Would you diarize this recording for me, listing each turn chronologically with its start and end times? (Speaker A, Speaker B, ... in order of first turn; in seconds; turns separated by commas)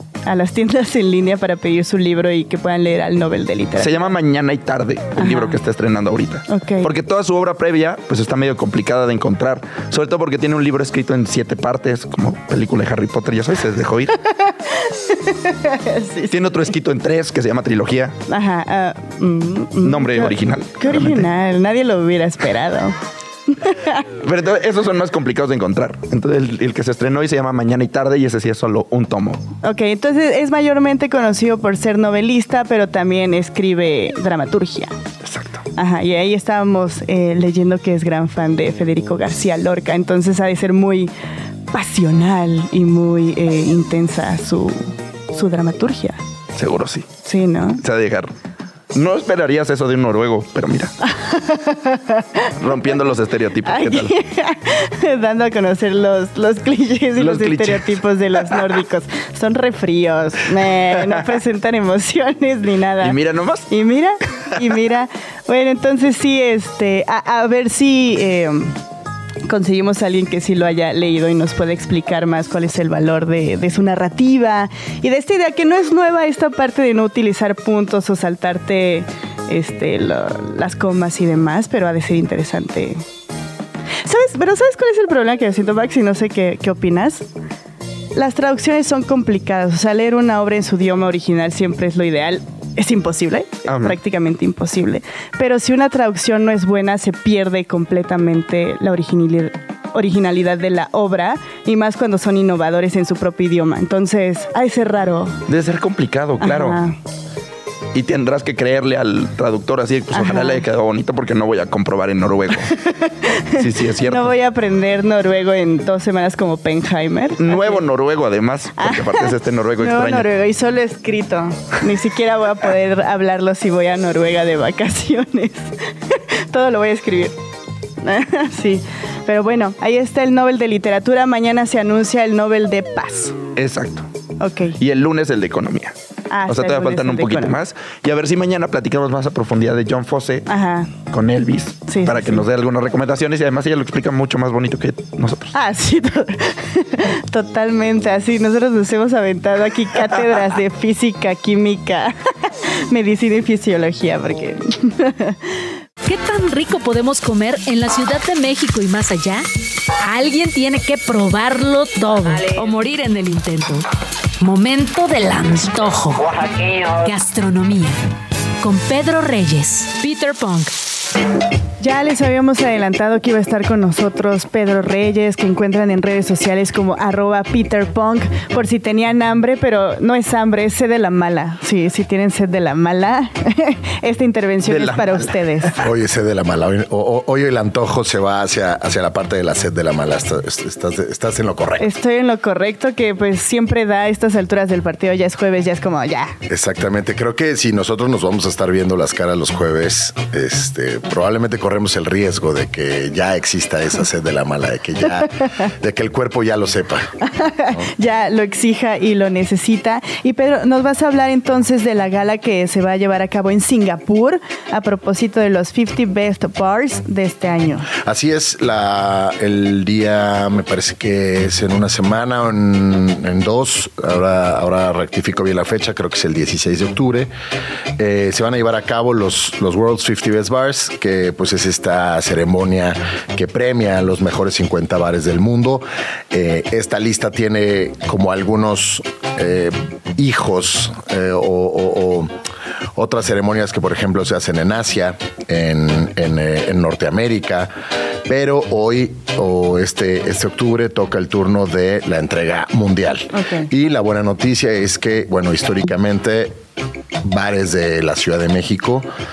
Speaker A: 0.2-4.1, Speaker B: 3.8-14.1, Speaker A: 5.2-5.5, Speaker A: 6.5-6.9, Speaker A: 14.2-16.5, Speaker B: 16.3-18.1, Speaker A: 18.3-22.9, Speaker B: 19.8-21.3, Speaker A: 23.5-24.0, Speaker B: 24.2-29.4, Speaker A: 29.6-34.9, Speaker B: 35.2-35.6, Speaker A: 35.8-41.1, Speaker A: 41.7-46.2, Speaker B: 46.5-47.1, Speaker A: 47.2-47.8, Speaker B: 47.8-48.3, Speaker B: 48.9-50.9, Speaker A: 51.1-52.5, Speaker B: 52.6-54.1, Speaker A: 53.6-63.2, Speaker B: 57.2-57.9, Speaker B: 63.0-63.7, Speaker A: 63.7-68.8, Speaker A: 69.5-83.0, Speaker A: 84.0-87.2, Speaker A: 88.1-105.4, Speaker B: 93.7-94.0, Speaker B: 105.5-106.8, Speaker A: 106.4-107.0, Speaker B: 107.9-112.7, Speaker A: 110.1-110.6, Speaker A: 112.8-117.8, Speaker B: 113.5-114.3, Speaker B: 117.4-120.3, Speaker A: 118.8-127.4, Speaker A: 128.0-133.4, Speaker B: 133.6-134.1, Speaker A: 134.4-134.8, Speaker B: 134.8-135.9, Speaker A: 136.3-137.6, Speaker B: 136.5-140.5, Speaker A: 140.5-140.9, Speaker B: 141.1-145.5, Speaker A: 141.9-142.4, Speaker A: 145.5-155.4, Speaker C: 156.0-159.4, Speaker C: 160.0-163.8, Speaker C: 164.4-166.3, Speaker C: 167.0-168.0, Speaker C: 168.6-170.8, Speaker A: 171.8-185.7, Speaker B: 184.7-185.8, Speaker D: 185.8-191.9, Speaker A: 191.8-196.3, Speaker D: 196.5-207.1, Speaker A: 207.2-217.9, Speaker D: 217.9-227.3, Speaker D: 228.0-242.3, Speaker D: 242.9-247.7, Speaker D: 248.2-256.6, Speaker A: 253.3-253.7, Speaker D: 257.2-259.1